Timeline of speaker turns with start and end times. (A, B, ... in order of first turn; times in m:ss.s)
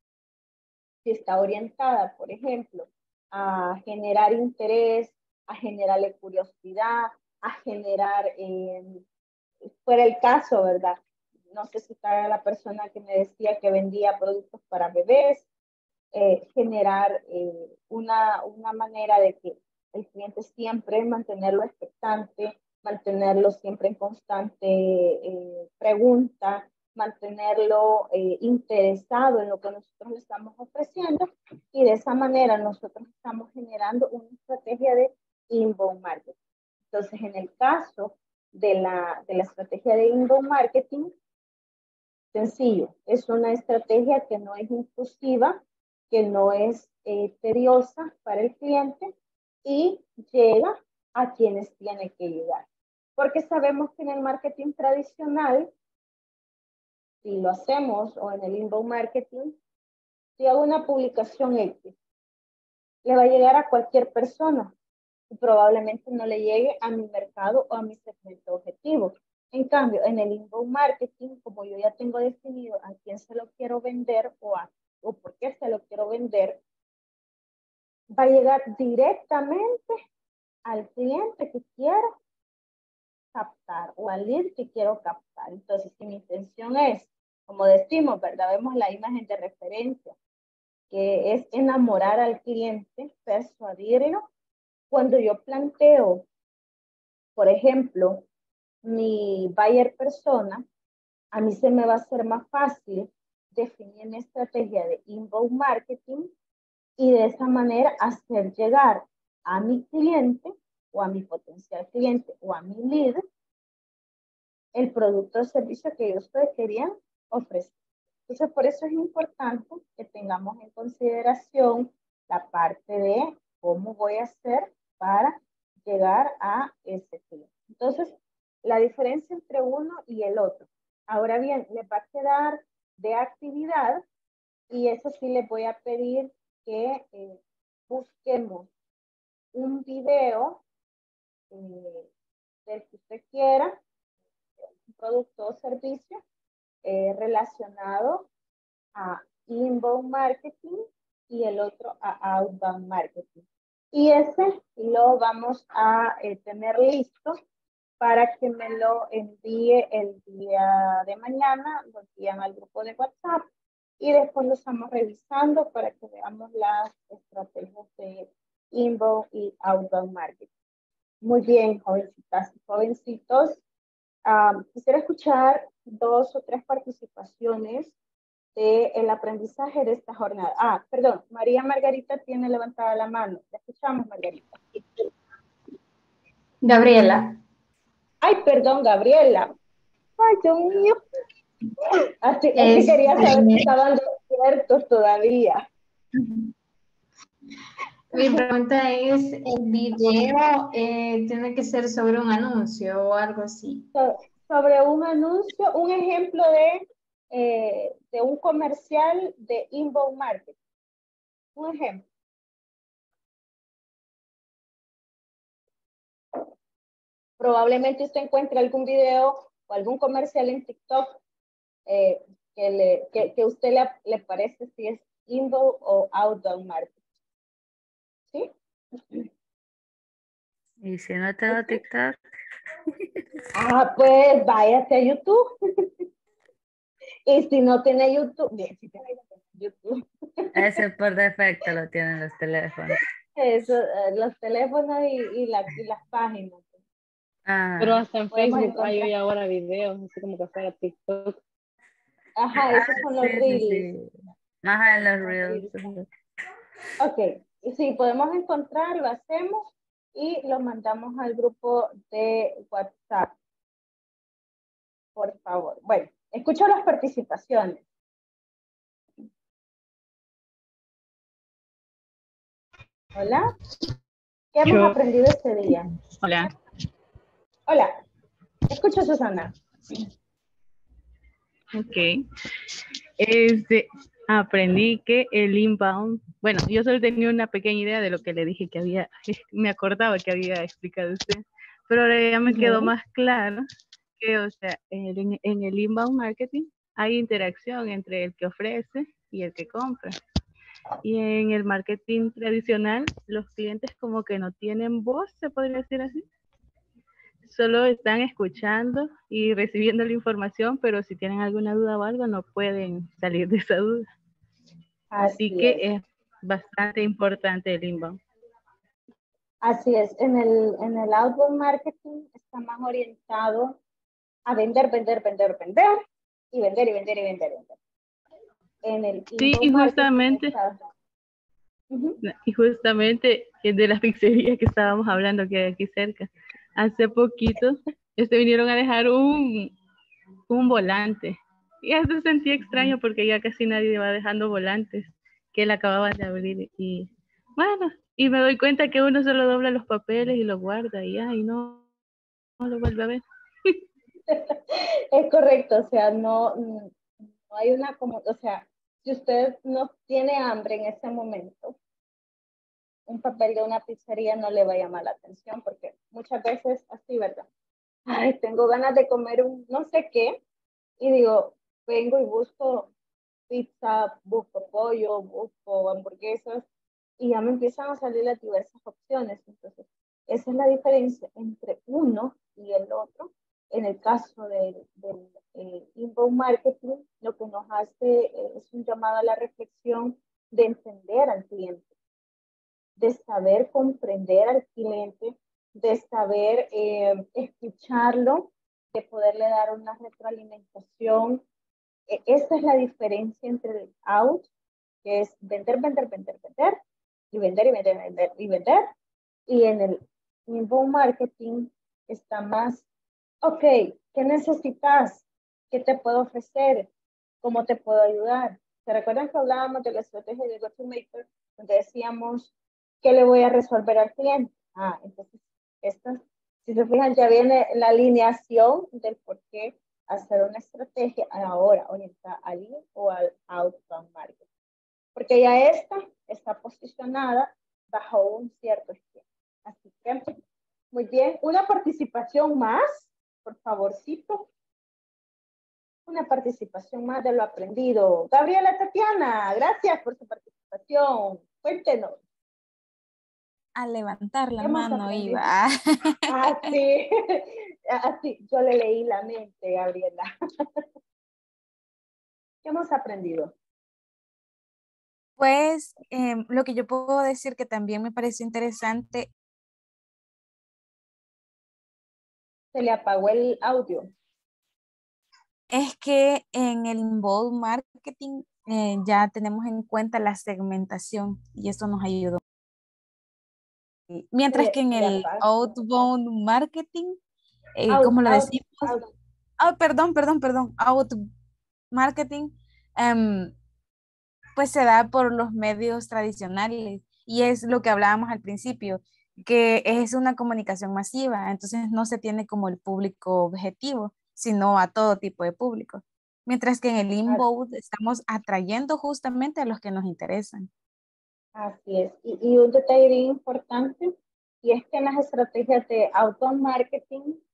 0:01.0-0:09.0 A
0:09.8-0:11.0 A
0:11.5-0:15.5 A
0:16.2-0:36.4 A
0:36.9-0:41.1 A
0:42.3-0:45.6 A
0:46.1-0:49.1 A
0:49.6-0:52.6 A
0:53.2-0:55.7 A
0:57.2-0:59.6 A
1:00.4-1:01.9 A
1:03.0-1:04.7 A
1:05.3-1:16.6 A
1:18.2-1:20.0 A
1:20.7-1:22.0 A
1:23.4-1:30.2 A
1:30.9-1:34.3 A
1:34.9-1:36.3 A
1:37.4-1:38.2 A
1:38.8-1:40.6 A
1:41.3-1:46.3 A
1:47.0-1:53.2 A
1:54.8-1:57.7 A
1:58.3-2:14.0 A
2:14.7-2:18.7 A
2:19.5-2:20.6 A
2:21.5-2:22.1 A
2:22.7-2:23.8 A
2:24.9-2:26.2 A
2:26.8-2:28.3 A
2:29.0-2:37.3 A
2:38.0-2:43.5 A
2:44.0-2:50.5 A
2:51.2-2:53.6 A
2:54.3-2:57.9 A
2:58.6-3:04.5 A
3:06.7-3:07.2 B
3:08.2-3:09.5 A
3:10.2-3:11.0 A
3:12.2-3:15.6 A
3:12.6-3:13.4 B
3:18.2-3:18.4 A
3:18.2-3:23.8 B
3:23.9-3:30.6 A
3:31.6-3:32.0 A
3:37.4-3:41.2 A
3:41.9-3:46.9 A
3:50.8-3:52.2 C
3:51.5-3:51.8 A
3:53.6-3:55.9 A
3:57.3-4:00.5 A
4:00.6-4:03.0 C
4:03.4-4:06.7 A
4:07.5-4:08.0 C
4:07.8-4:11.4 D
4:08.3-4:09.1 A
4:12.4-4:13.9 A
4:12.6-4:14.1 C
4:14.6-4:16.0 C
4:15.2-4:16.0 A
4:17.0-4:23.3 A
4:25.2-4:27.8 A
4:33.2-4:33.4 A
4:34.5-4:35.9 A
4:34.7-4:35.0 E
4:36.2-4:36.5 E
4:38.7-4:39.5 A
4:41.7-4:42.2 E
4:43.2-4:53.6 E
4:52.5-4:52.9 A
4:54.2-5:00.2 E
5:01.0-5:06.2 E
5:07.5-5:14.0 E
5:15.1-5:15.8 A
5:15.4-5:18.2 E
5:19.6-5:23.8 A
5:24.5-5:25.9 A
5:26.5-5:27.8 A
5:28.8-5:30.8 A
5:29.4-5:30.5 E
5:31.9-5:32.2 A
5:32.2-5:39.7 E
5:40.5-5:51.8 E
5:52.6-5:53.8 E
5:54.3-5:56.9 A
5:57.4-6:01.8 A
6:03.1-6:07.5 A
6:08.1-6:10.4 A
6:11.0-6:12.9 A
6:13.5-6:16.6 A
6:17.2-6:31.9 A
6:33.0-6:41.4 A
6:42.1-6:44.5 A
6:45.0-6:46.8 A
6:47.3-6:48.9 A
6:49.5-6:52.8 A
6:53.4-6:56.9 A
6:57.4-7:02.5 A
7:03.0-7:14.4 A
7:15.2-7:20.4 A
7:20.9-7:24.5 A
7:26.1-7:32.2 A
7:33.8-7:36.8 F
7:34.6-7:35.5 A
7:36.3-7:40.3 A
7:42.6-7:43.5 A
7:45.4-7:49.3 F
7:52.7-7:54.1 A
7:55.7-8:02.4 F
8:04.1-8:07.2 F
8:04.5-8:05.7 A
8:07.8-8:08.9 F
8:07.9-8:09.1 A
8:09.6-8:11.2 F
8:11.9-8:13.5 F
8:14.6-8:30.7 F
8:31.6-8:34.1 A
8:34.6-8:37.4 A